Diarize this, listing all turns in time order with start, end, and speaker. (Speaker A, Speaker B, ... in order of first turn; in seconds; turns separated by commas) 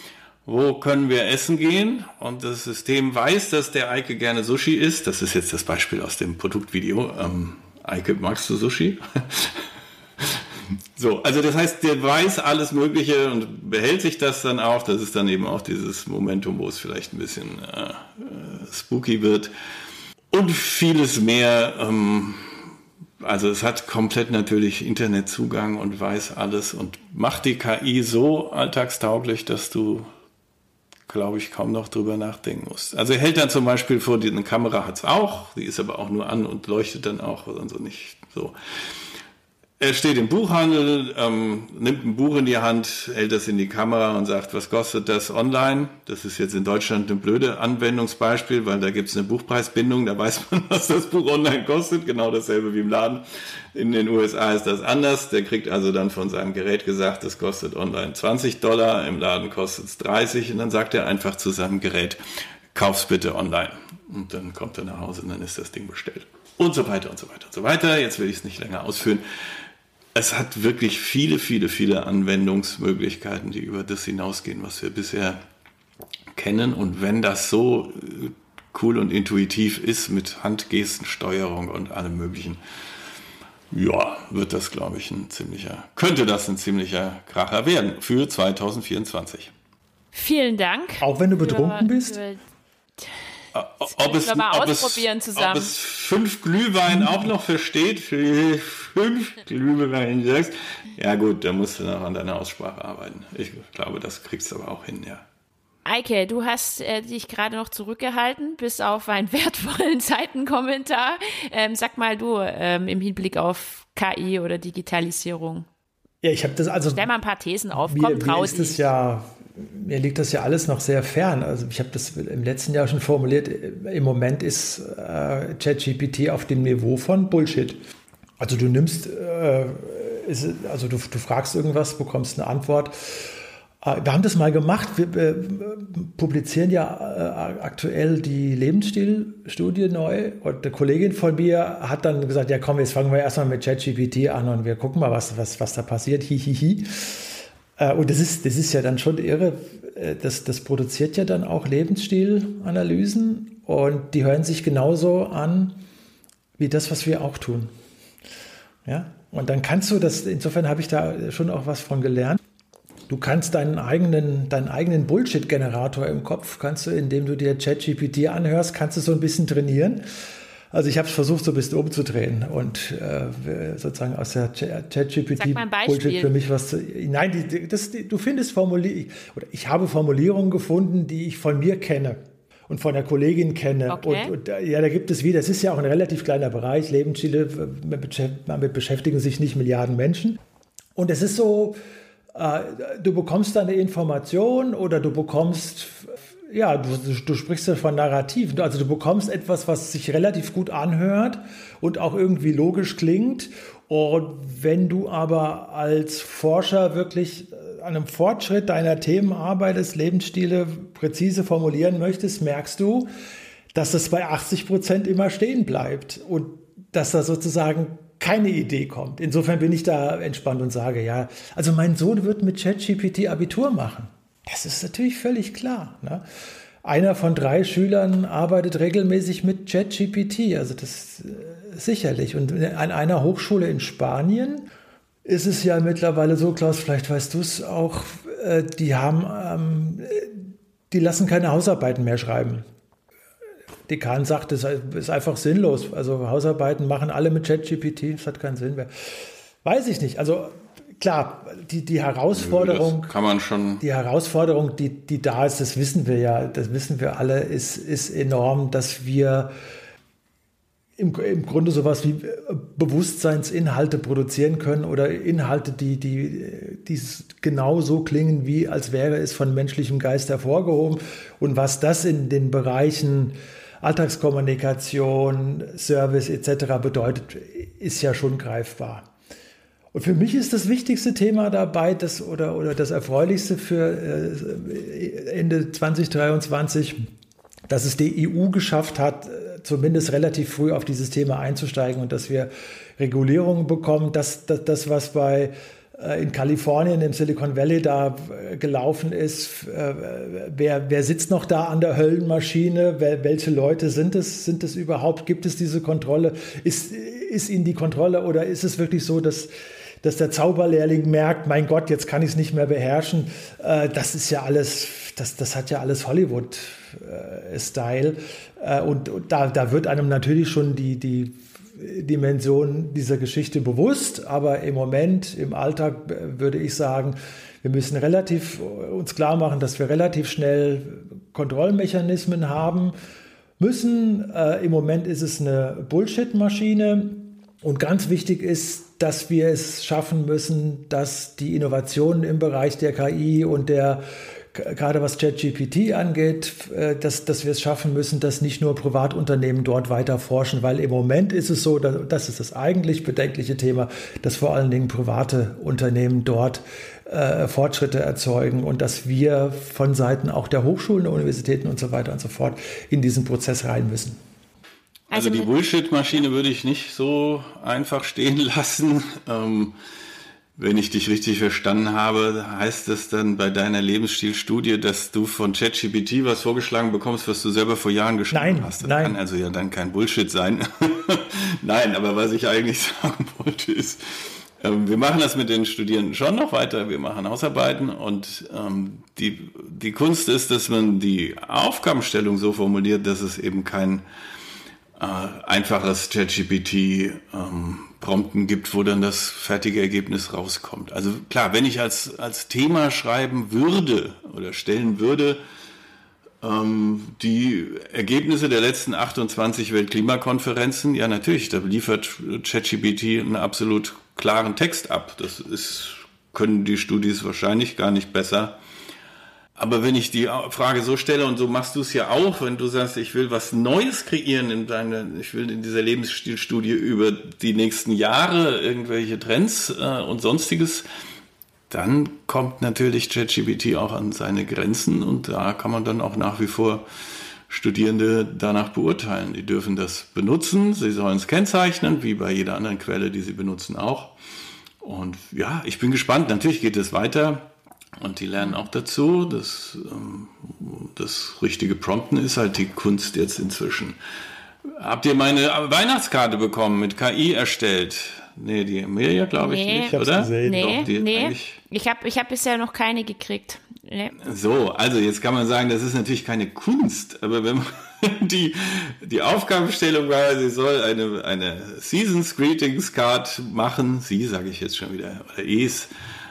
Speaker A: 0.5-19.5, Speaker A: 20.3-22.7, Speaker A: 23.2-30.1, Speaker A: 31.1-38.6, Speaker A: 39.8-53.2, Speaker A: 53.7-62.2, Speaker A: 62.7-69.2, Speaker A: 70.2-75.4, Speaker A: 76.3-82.6, Speaker A: 83.7-89.5, Speaker B: 90.1-92.4, Speaker C: 91.0-92.2, Speaker A: 93.5-105.2, Speaker B: 93.9-95.7, Speaker B: 105.9-115.7, Speaker C: 116.2-117.1, Speaker B: 117.0-118.9, Speaker C: 117.8-127.8, Speaker C: 128.4-155.8, Speaker C: 156.6-157.7, Speaker C: 158.9-162.4, Speaker C: 163.1-170.0, Speaker C: 170.7-190.4, Speaker B: 175.4-176.3, Speaker B: 183.9-184.3, Speaker C: 191.0-191.8, Speaker C: 192.3-213.1, Speaker C: 213.7-226.2, Speaker C: 226.8-234.7, Speaker C: 235.2-242.7, Speaker C: 243.9-253.2, Speaker A: 252.3-253.8, Speaker C: 253.8-259.5, Speaker C: 261.0-279.1, Speaker C: 279.9-287.0, Speaker C: 287.7-309.5, Speaker C: 310.0-332.9, Speaker C: 333.6-364.2, Speaker B: 365.1-365.5, Speaker A: 365.1-369.8, Speaker A: 370.6-394.0, Speaker C: 378.3-379.2, Speaker A: 395.0-405.4, Speaker A: 406.4-418.6, Speaker A: 419.6-430.9, Speaker A: 431.7-436.9, Speaker A: 437.5-444.1, Speaker A: 444.8-454.0, Speaker A: 454.7-461.6, Speaker B: 459.4-464.1, Speaker C: 459.9-460.9, Speaker A: 464.2-475.9